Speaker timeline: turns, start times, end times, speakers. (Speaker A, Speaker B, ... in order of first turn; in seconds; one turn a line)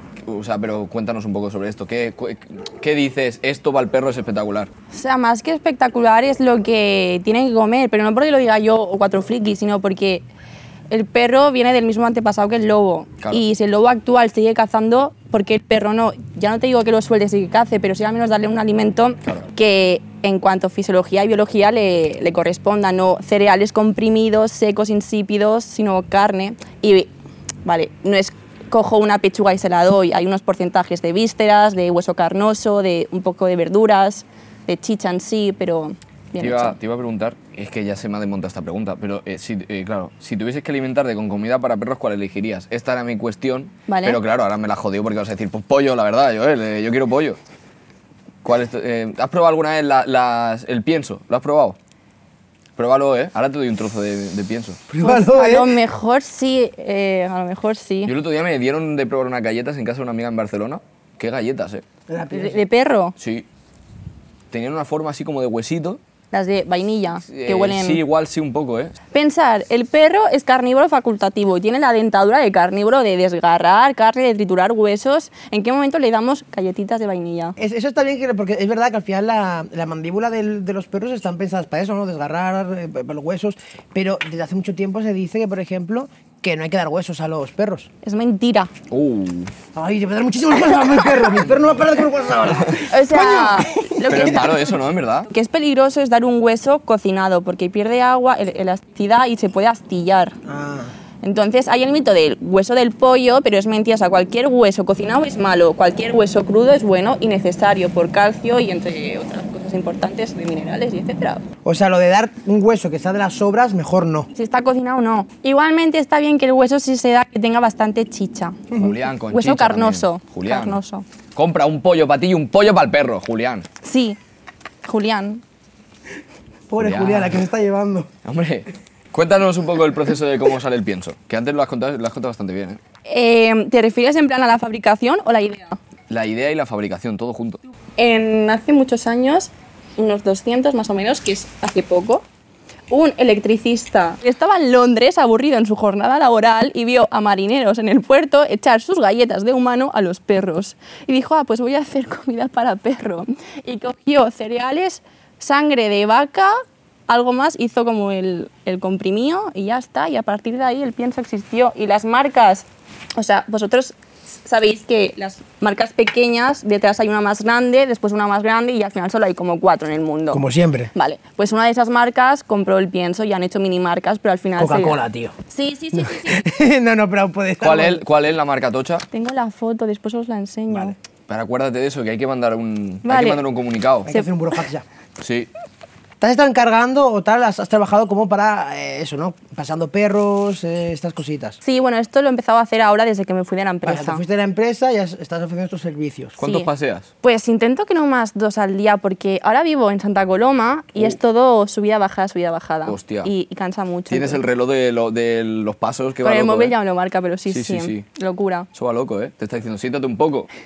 Speaker A: 0.2-4.7
Speaker B: 4.9-10.2
Speaker B: 10.9-27.1
Speaker B: 27.6-36.8
Speaker A: 36.4-47.4
Speaker B: 43.9-44.2
Speaker A: 48.4-51.8
Speaker A: 52.8-54.8
Speaker C: 54.9-55.8
Speaker B: 55.0-58.1
Speaker A: 58.0-61.8
Speaker C: 62.1-62.6
Speaker B: 62.3-63.1
Speaker A: 63.2-63.5
Speaker A: 64.5-66.0
Speaker B: 66.3-68.0
Speaker A: 67.2-68.9
Speaker B: 69.1-77.5
Speaker C: 77.6-87.9
Speaker B: 88.0-88.7
Speaker A: 88.9-89.5
Speaker C: 89.7-94.3
Speaker B: 92.9-94.8
Speaker A: 94.1-95.3
Speaker B: 95.2-100.4
Speaker C: 100.5-100.9
Speaker B: 101.2-111.4
Speaker C: 111.6-114.3
Speaker B: 114.3-118.7
Speaker A: 118.7-120.8
Speaker B: 119.3-121.0
Speaker A: 121.3-123.7
Speaker B: 123.8-124.2
Speaker B: 124.8-125.4
Speaker C: 126.7-128.1
Speaker A: 126.8-127.4
Speaker A: 128.2-132.8
Speaker B: 133.1-135.8
Speaker A: 136.1-137.6
Speaker B: 138.0-142.2
Speaker B: 142.9-162.6
Speaker B: 163.2-170.4
Speaker C: 170.3-170.9
Speaker B: 170.9-176.4
Speaker C: 174.6-175.4
Speaker C: 175.9-178.0
Speaker A: 177.6-179.0
Speaker B: 179.1-181.0
Speaker C: 180.7-180.9
Speaker A: 181.3-184.1
Speaker B: 183.0-183.4
Speaker C: 184.1-184.8
Speaker A: 185.2-185.5
Speaker C: 186.2-191.6
Speaker B: 191.6-194.2
Speaker C: 193.8-196.4
Speaker A: 196.4-197.1
Speaker B: 196.4-196.7
Speaker B: 197.2-204.4
Speaker A: 202.9-203.3
Speaker A: 204.1-206.7
Speaker B: 206.2-208.7
Speaker A: 207.5-208.0
Speaker A: 208.7-210.5